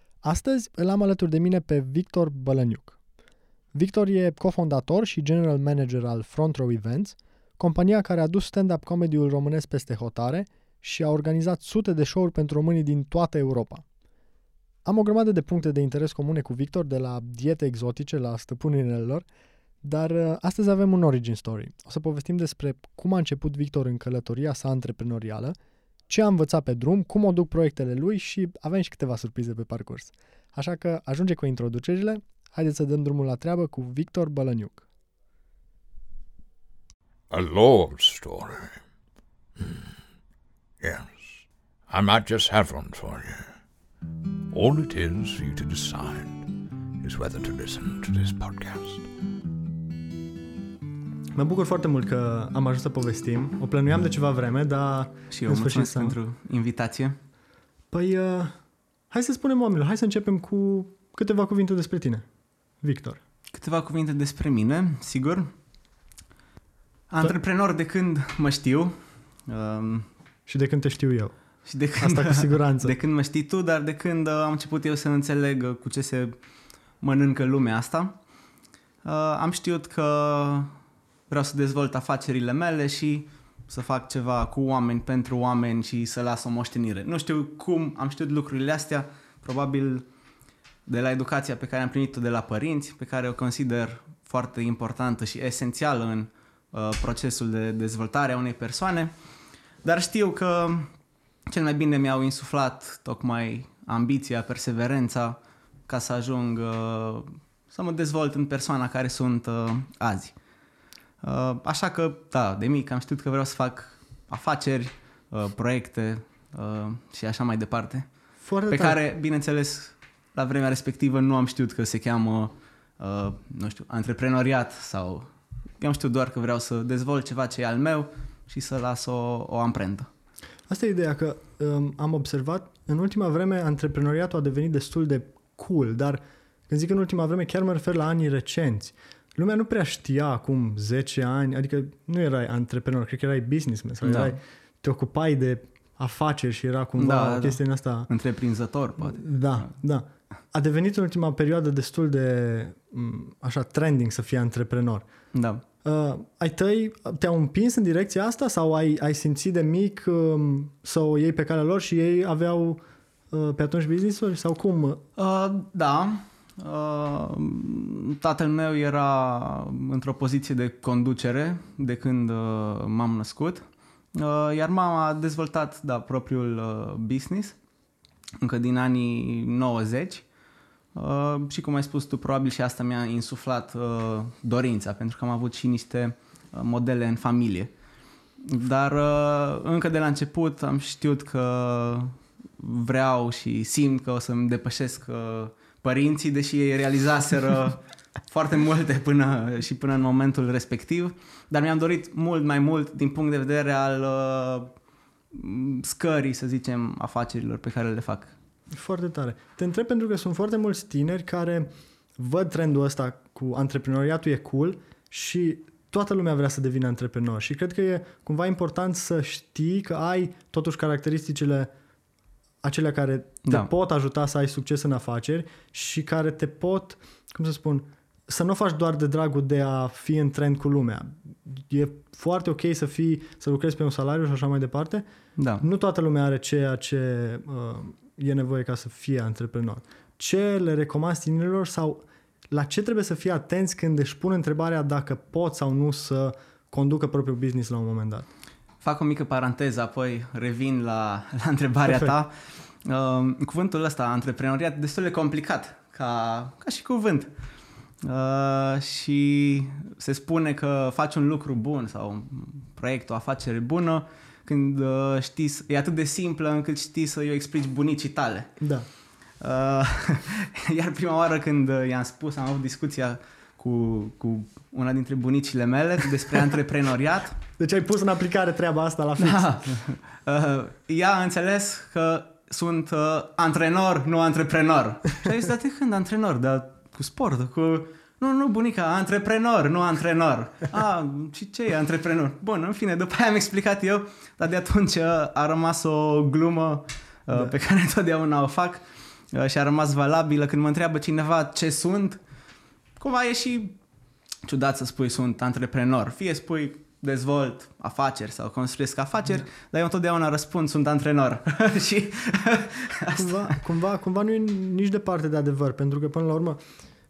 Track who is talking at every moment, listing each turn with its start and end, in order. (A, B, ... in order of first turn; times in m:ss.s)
0:00.2-0:03.0 A
0:03.7-0:13.8 A
0:14.8-0:19.2 A
0:19.8-0:25.6 A
0:26.1-0:34.8 A
0:37.3-0:38.8 B
0:40.8-0:43.5 B
0:44.5-0:46.5 B
0:47.0-0:49.0 B
0:51.3-0:56.1 A
0:55.3-0:57.2 C
0:57.9-0:58.5 A
0:59.1-1:02.2 A
1:02.8-1:03.2 A
1:03.5-1:05.5 C
1:07.1-1:10.1 C
1:10.5-1:11.3 A
1:11.6-1:16.4 C
1:12.0-1:12.9 A
1:17.0-1:18.1 C
1:19.0-1:20.7 C
1:21.3-1:30.0 C
1:30.8-1:39.1 C
1:39.8-1:40.9 C
1:41.5-1:50.3 C
1:51.2-1:58.1 C
1:58.4-1:59.0 A
1:58.7-2:10.1 C
2:10.7-2:28.1 A
2:24.0-2:24.4 C
2:27.0-2:29.3 C
2:29.0-2:35.0 A
2:35.3-2:35.6 C
2:35.8-2:45.0 A
2:45.2-2:57.6 C
2:58.4-3:00.2 C
3:00.9-3:07.7 C
3:08.4-3:24.7 C
3:25.3-3:28.3 C
3:28.7-3:41.7 A
3:42.6-3:55.0 A
3:55.4-3:55.6 C
3:55.6-4:08.2 A
4:08.8-4:17.3 C
4:18.0-4:28.5 C
4:28.6-4:28.9 A
4:29.4-4:37.4 C
4:37.6-4:39.4 A
4:39.2-5:02.2 C
5:03.0-5:03.8 C
5:04.4-5:13.5 C
5:13.1-5:16.6 A